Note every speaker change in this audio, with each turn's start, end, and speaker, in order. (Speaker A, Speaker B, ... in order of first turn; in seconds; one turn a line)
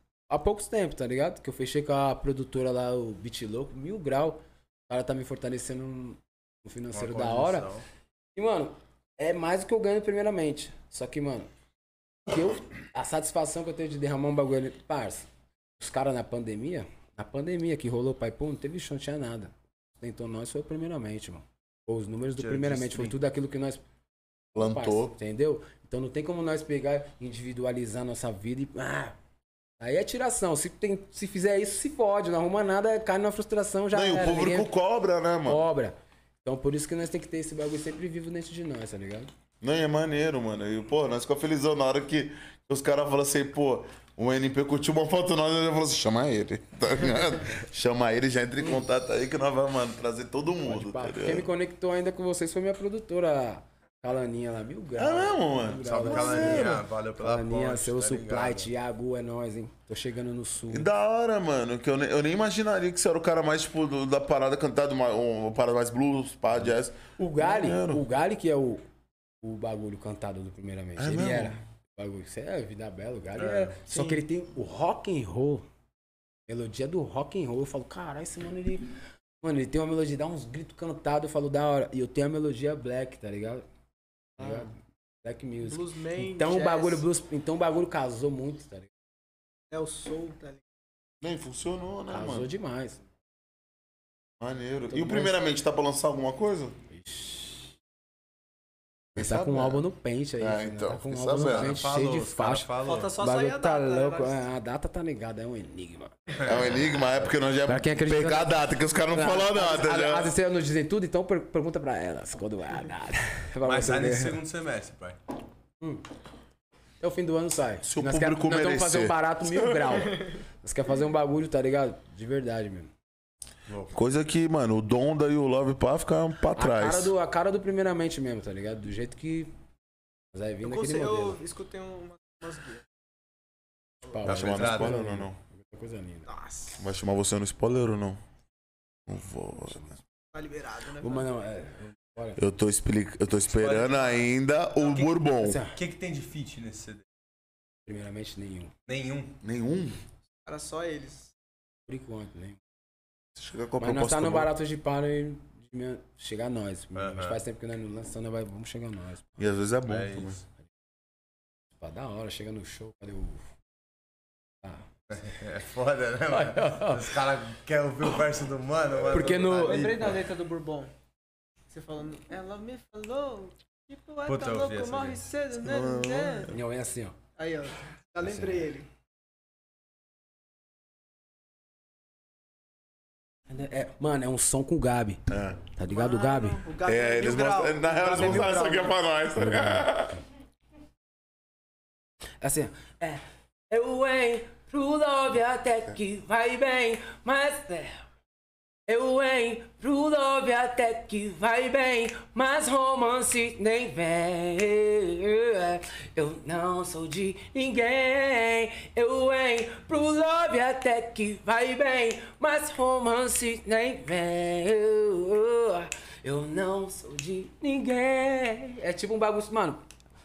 Speaker A: 0.3-7.7
Speaker B: 6.9-7.8
Speaker A: 8.3-11.5
Speaker A: 12.3-15.2
Speaker A: 15.8-23.8
Speaker B: 22.4-23.1
Speaker A: 24.5-29.1
Speaker C: 24.5-25.1
Speaker A: 29.8-34.7
Speaker C: 33.9-35.6
Speaker A: 35.5-39.3
Speaker C: 39.6-51.5
Speaker A: 50.6-60.9
Speaker C: 55.0-56.8
Speaker B: 55.8-58.7
Speaker C: 60.7-68.0
Speaker A: 67.2-68.8
Speaker A: 69.4-75.6
Speaker C: 71.0-71.5
Speaker B: 73.4-73.8
Speaker D: 73.9-74.2
Speaker A: 76.5-78.9
Speaker A: 79.4-83.6
Speaker A: 84.4-84.7
Speaker A: 85.2-88.9
Speaker D: 85.6-87.0
Speaker D: 89.7-90.6
Speaker C: 91.2-92.5
Speaker A: 92.1-93.0
Speaker C: 94.4-96.7
Speaker A: 94.9-95.4
Speaker A: 96.9-97.7
Speaker C: 99.1-99.8
Speaker A: 99.2-106.1
Speaker C: 100.4-101.8
Speaker B: 101.4-103.1
Speaker D: 102.8-104.4
Speaker C: 106.4-110.3
Speaker A: 107.7-114.4
Speaker B: 113.6-115.2
Speaker A: 117.0-122.9
Speaker C: 117.8-120.0
Speaker B: 123.7-124.0
Speaker C: 123.9-127.1
Speaker A: 126.5-129.5
Speaker A: 130.3-131.4
Speaker D: 130.6-132.8
Speaker A: 134.0-136.3
Speaker C: 134.2-135.3
Speaker B: 134.2-135.0
Speaker D: 136.3-136.8
Speaker C: 136.8-138.2
Speaker C: 139.1-139.9
Speaker D: 140.3-141.3
Speaker A: 141.0-142.4
Speaker C: 142.4-145.6
Speaker B: 143.5-144.2
Speaker A: 145.4-145.8
Speaker B: 145.7-147.0
Speaker A: 147.8-148.7
Speaker B: 148.8-149.4
Speaker C: 149.4-150.0
Speaker D: 150.4-151.3
Speaker A: 151.9-152.6
Speaker C: 153.3-154.5
Speaker A: 153.8-159.2
Speaker B: 156.9-157.4
Speaker C: 159.4-160.4
Speaker B: 159.9-160.4
Speaker A: 161.8-163.5
Speaker B: 165.1-170.2
Speaker A: 166.3-167.2
Speaker A: 169.1-170.1
Speaker D: 169.6-170.9
Speaker D: 171.7-176.5
Speaker B: 174.2-175.3
Speaker C: 175.6-176.5
Speaker A: 176.5-177.2
Speaker D: 177.4-178.9
Speaker A: 178.2-178.7
Speaker A: 183.5-185.2
Speaker C: 185.3-185.6
Speaker A: 185.7-186.6
Speaker D: 185.9-189.0
Speaker C: 186.8-190.2
Speaker A: 189.3-189.9
Speaker A: 192.4-198.0
Speaker A: 198.9-219.8